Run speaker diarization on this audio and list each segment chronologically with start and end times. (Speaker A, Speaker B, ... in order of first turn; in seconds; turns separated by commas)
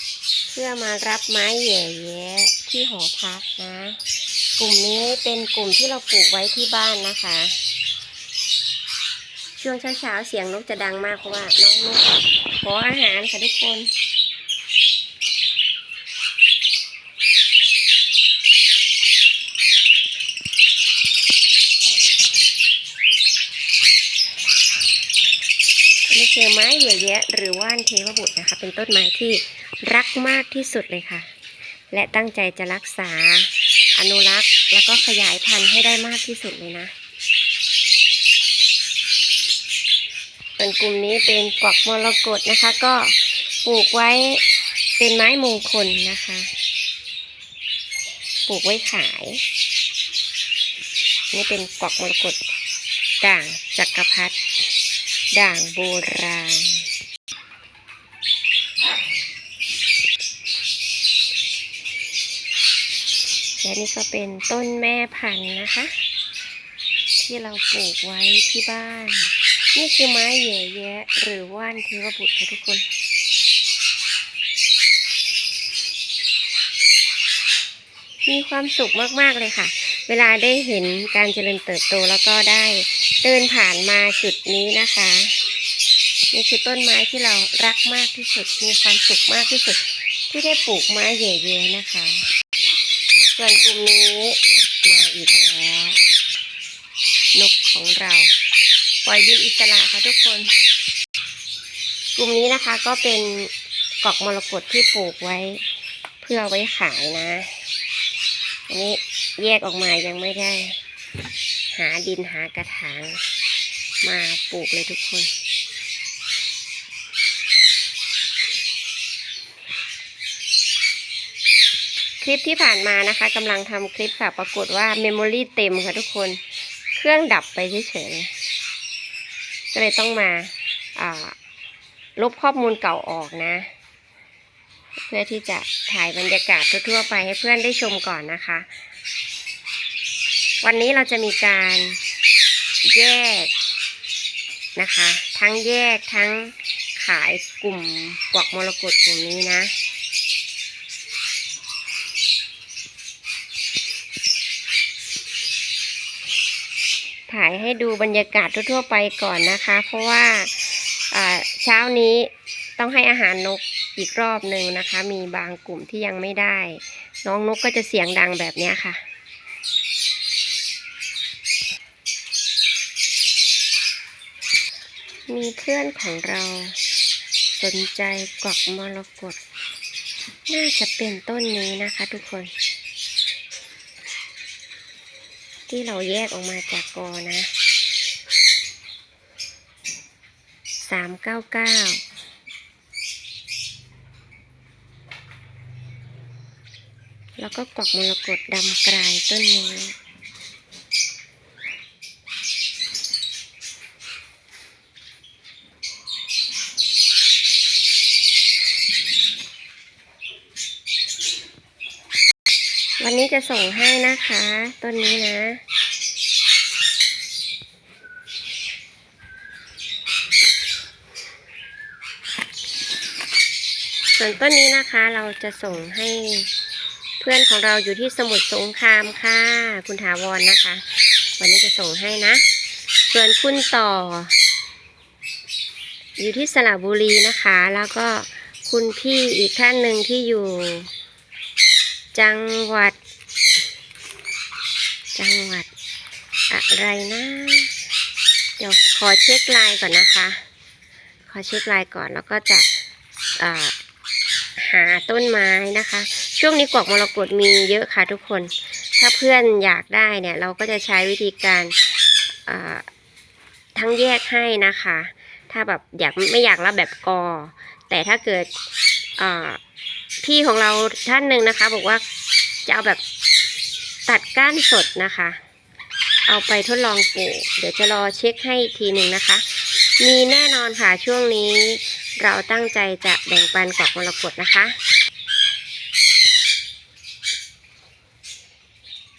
Speaker A: 0.5-4.0, Speaker A: 4.6-7.6, Speaker A: 9.6-13.9, Speaker A: 26.1-31.3, Speaker A: 31.9-36.9, Speaker A: 40.6-44.4, Speaker A: 45.0-46.5, Speaker A: 48.5-49.4, Speaker A: 51.3-52.4, Speaker A: 53.2-54.4, Speaker A: 55.3-56.9, Speaker A: 63.6-65.9, Speaker A: 67.2-72.8, Speaker A: 78.2-85.3, Speaker A: 86.3-92.3, Speaker A: 93.3-96.0, Speaker A: 97.3-98.3, Speaker A: 99.0-100.5, Speaker A: 102.2-103.5, Speaker A: 104.0-105.6, Speaker A: 106.2-107.6, Speaker A: 108.7-110.8, Speaker A: 111.7-113.2, Speaker A: 114.0-115.3, Speaker A: 122.2-126.4, Speaker A: 126.9-128.3, Speaker A: 129.7-131.4, Speaker A: 132.2-133.7, Speaker A: 135.1-138.7, Speaker A: 140.6-142.0, Speaker A: 142.9-143.5, Speaker A: 144.8-149.7, Speaker A: 157.3-169.0, Speaker A: 175.3-176.8, Speaker A: 177.6-179.4, Speaker A: 180.5-182.5, Speaker A: 185.7-187.5, Speaker A: 190.8-192.0, Speaker A: 197.4-200.0, Speaker A: 213.0-215.6, Speaker A: 224.2-226.5, Speaker A: 227.2-230.8, Speaker A: 231.4-232.4, Speaker A: 233.1-234.3, Speaker A: 236.2-240.9, Speaker A: 242.1-243.0, Speaker A: 245.2-245.7, Speaker A: 246.5-247.7, Speaker A: 248.6-250.4, Speaker A: 251.3-252.7, Speaker A: 253.4-253.8, Speaker A: 254.6-261.8, Speaker A: 262.4-262.9, Speaker A: 263.8-268.5, Speaker A: 269.2-269.6, Speaker A: 270.2-272.0, Speaker A: 272.6-273.0, Speaker A: 274.1-275.4, Speaker A: 276.3-279.4, Speaker A: 280.0-284.8